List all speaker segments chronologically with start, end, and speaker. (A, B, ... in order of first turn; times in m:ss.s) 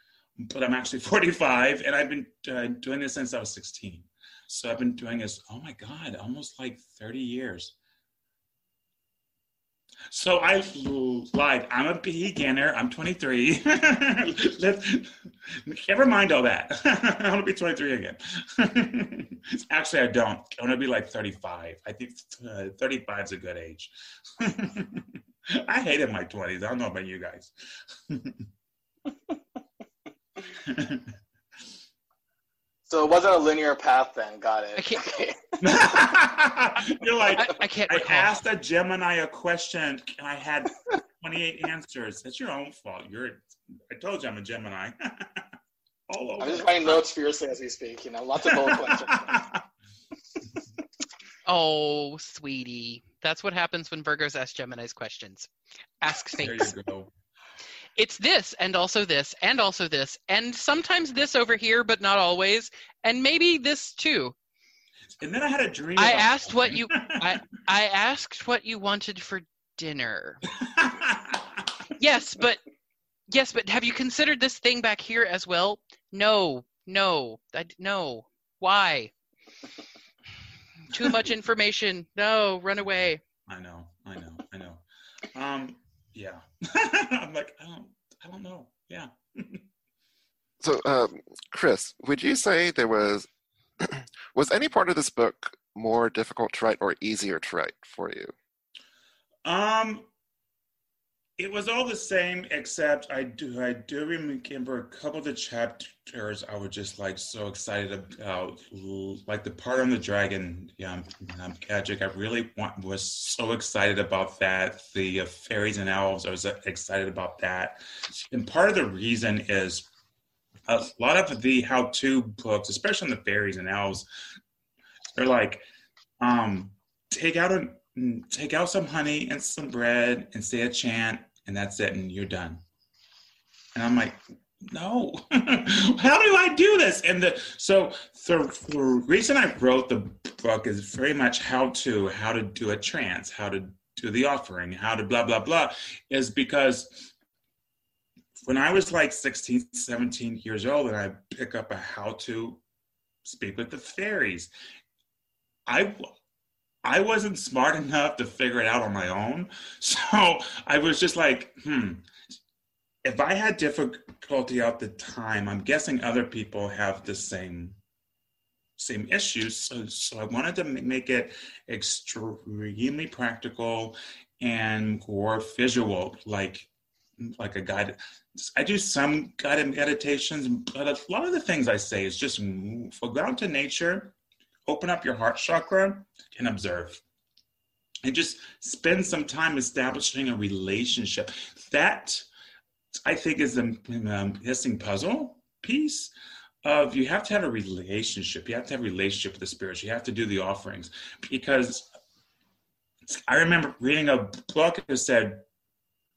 0:00.4-0:07.7 A
0:10.1-0:27.5 A
0:28.1-0:28.4 A
0:30.6-0:31.1 A
0:32.9-0:35.7 B
0:34.8-0:35.1 C
0:35.6-0:45.5 A
0:37.3-0:38.3 C
0:46.1-0:47.0 A
0:46.4-0:49.4 B
0:48.4-0:49.6 A
0:51.4-0:55.5 C
0:56.0-0:56.7 C
0:56.4-0:57.1 A
0:58.0-1:04.3 C
1:05.2-1:07.4 A
1:06.0-1:10.4 C
1:10.6-1:11.6 A
1:12.0-1:12.6 C
1:13.3-1:19.1 C
1:20.9-1:23.2 C
1:23.5-1:29.6 A
1:30.6-1:33.3 D
1:33.8-1:38.3 D
1:39.4-1:40.1 A
1:41.4-1:59.8 A
2:00.7-2:04.0 A
2:05.2-2:05.7 A
2:06.2-2:12.6 A
2:13.7-2:27.1 A
2:28.4-2:32.6 A
2:33.2-2:34.5 A
2:35.7-2:36.1 A
2:36.8-2:42.1 A
2:43.0-2:47.8 A
2:48.8-2:56.7 A
2:57.2-3:04.2 A
3:04.7-3:07.0 A
3:08.0-3:12.2 A
3:13.0-3:16.1 A
3:16.6-3:21.9 A
3:23.1-3:25.4 A